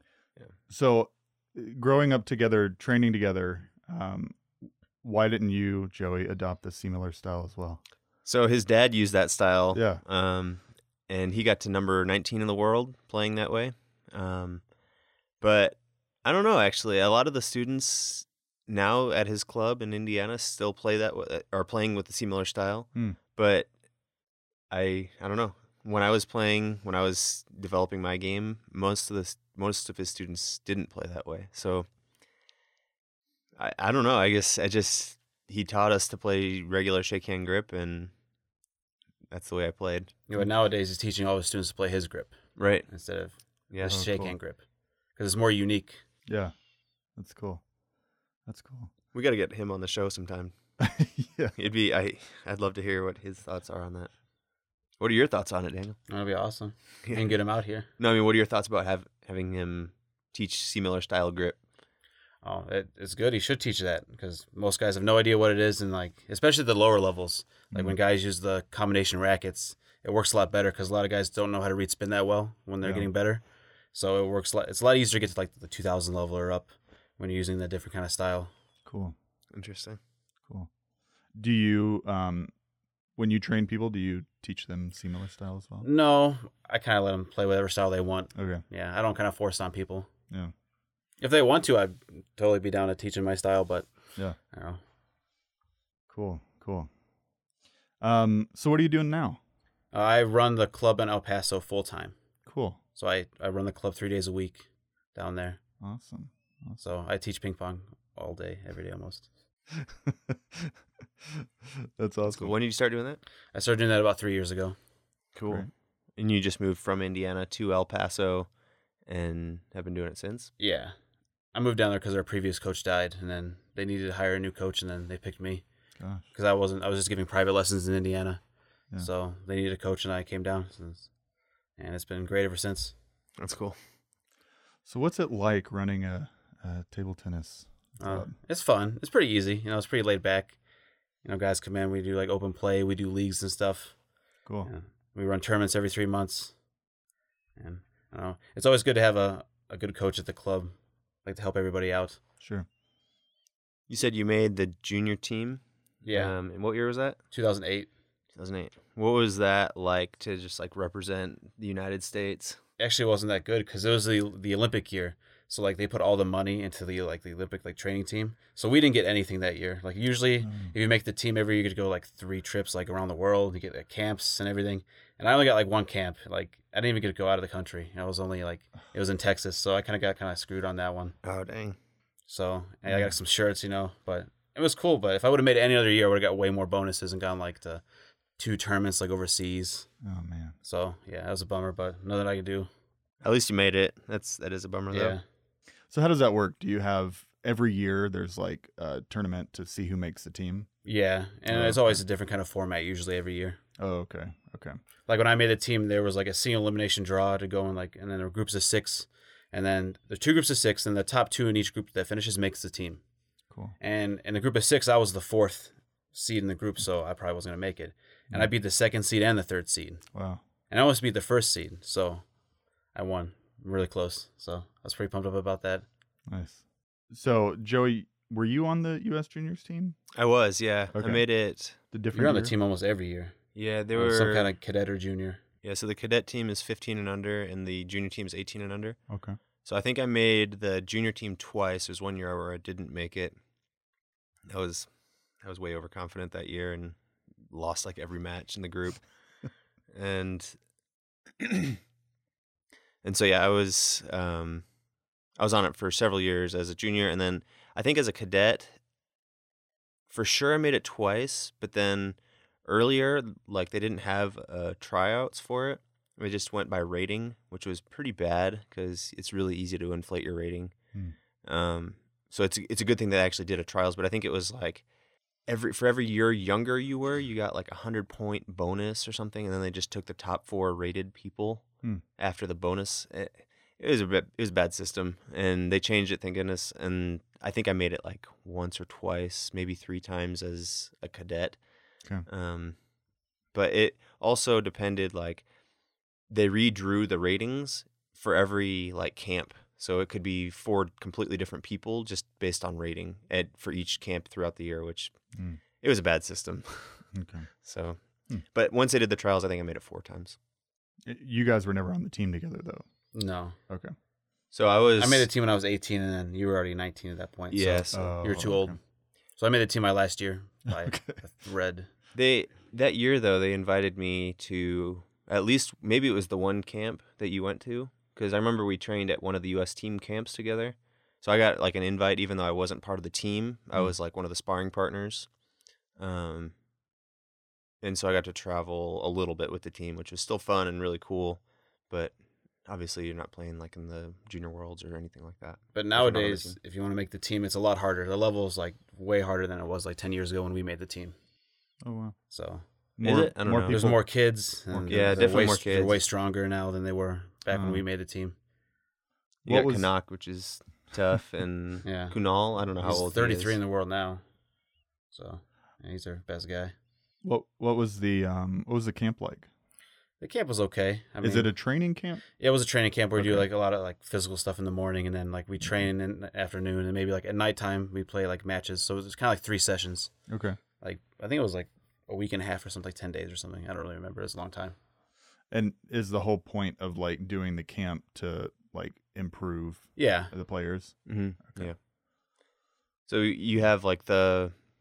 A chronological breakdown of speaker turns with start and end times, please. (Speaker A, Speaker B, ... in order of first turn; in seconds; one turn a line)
Speaker A: 0.7-7.8
Speaker B: 8.2-14.6
Speaker A: 9.7-10.0
Speaker B: 15.4-23.7
Speaker B: 24.7-31.9
Speaker B: 33.6-38.1
Speaker B: 39.3-40.1
Speaker C: 40.3-46.0
Speaker B: 42.5-42.9
Speaker B: 43.7-44.0
Speaker A: 43.9-44.4
Speaker A: 46.3-46.5
Speaker A: 47.1-47.6
Speaker A: 48.4-48.9
Speaker B: 49.1-50.6
Speaker A: 50.9-51.5
Speaker B: 51.5-54.1
Speaker B: 55.0-56.0
Speaker C: 56.1-57.9
Speaker B: 57.0-57.4
Speaker B: 58.0-61.6
Speaker C: 62.4-78.5
Speaker A: 67.7-68.0
Speaker A: 78.8-79.1
Speaker B: 79.5-80.0
Speaker A: 81.3-82.5
Speaker A: 83.2-85.9
Speaker C: 85.8-90.1
Speaker A: 88.3-88.6
Speaker C: 91.2-94.8
Speaker A: 96.1-96.9
Speaker A: 98.0-99.4
Speaker C: 99.9-102.2
Speaker A: 102.5-102.8
Speaker C: 103.0-105.6
Speaker A: 105.8-106.8
Speaker C: 106.8-109.3
Speaker A: 110.3-110.7
Speaker A: 112.0-112.5
Speaker B: 112.2-113.2
Speaker C: 113.5-114.8
Speaker B: 115.3-118.5
Speaker B: 119.0-120.5
Speaker C: 120.6-120.9
Speaker C: 121.5-125.6
Speaker A: 126.0-126.2
Speaker C: 126.3-131.1
Speaker C: 131.7-132.9
Speaker B: 133.4-133.8
Speaker A: 134.8-138.3
Speaker C: 138.0-140.6
Speaker C: 141.2-146.6
Speaker A: 144.4-144.7
Speaker C: 147.6-152.2
Speaker A: 152.4-152.7
Speaker B: 153.9-157.2
Speaker C: 156.0-156.3
Speaker C: 157.3-157.9
Speaker B: 158.3-162.6
Speaker C: 162.8-181.2
Speaker A: 170.4-170.7
Speaker B: 181.2-181.8
Speaker C: 182.3-187.8
Speaker A: 182.8-183.1
Speaker C: 188.4-189.9
Speaker A: 190.0-190.5
Speaker C: 190.6-192.7
Speaker B: 193.2-195.2
Speaker C: 194.9-195.2
Speaker A: 195.9-200.7
Speaker C: 200.8-203.6
Speaker A: 201.5-202.0
Speaker A: 203.8-204.8
Speaker C: 205.1-213.0
Speaker C: 213.8-220.1
Speaker A: 220.1-220.4
Speaker C: 220.7-222.2
Speaker C: 222.9-225.8
Speaker A: 226.3-230.0
Speaker B: 230.1-231.8
Speaker A: 230.9-232.5
Speaker C: 232.1-233.3
Speaker B: 233.5-234.5
Speaker C: 233.9-235.4
Speaker B: 235.6-239.0
Speaker A: 239.1-239.3
Speaker B: 239.6-243.4
Speaker B: 244.4-247.0
Speaker B: 247.5-249.1
Speaker B: 249.9-250.6
Speaker B: 251.4-251.8
Speaker B: 253.0-254.7
Speaker B: 255.4-258.8
Speaker B: 260.1-270.8
Speaker B: 271.4-274.8
Speaker B: 275.4-291.6
Speaker B: 292.2-292.8
Speaker B: 293.5-295.4
Speaker B: 296.3-305.2
Speaker A: 305.3-305.6
Speaker B: 305.8-307.1
Speaker A: 307.1-307.5
Speaker B: 307.6-310.4
Speaker A: 311.1-313.1
Speaker C: 313.1-313.6
Speaker A: 313.7-313.9
Speaker B: 314.5-315.3
Speaker C: 315.0-318.8
Speaker B: 317.5-318.1
Speaker A: 317.9-318.8
Speaker C: 319.4-321.9
Speaker A: 320.7-321.2
Speaker B: 322.1-335.3
Speaker B: 336.0-336.5
Speaker B: 337.8-346.6
Speaker C: 345.7-351.1
Speaker A: 351.8-352.1
Speaker C: 352.3-352.6
Speaker A: 353.0-355.5
Speaker B: 353.0-353.8
Speaker C: 353.5-358.3
Speaker B: 354.9-356.0
Speaker A: 357.5-357.8
Speaker B: 359.4-363.6
Speaker A: 359.4-359.9
Speaker C: 361.8-364.2
Speaker C: 365.1-366.7
Speaker A: 367.2-369.5
Speaker C: 370.2-371.8
Speaker A: 371.2-372.2
Speaker C: 372.4-384.8
Speaker A: 373.1-373.5
Speaker A: 375.6-375.9
Speaker A: 380.3-380.6
Speaker A: 385.5-391.7
Speaker C: 389.9-390.3
Speaker B: 391.0-391.8
Speaker B: 393.1-394.6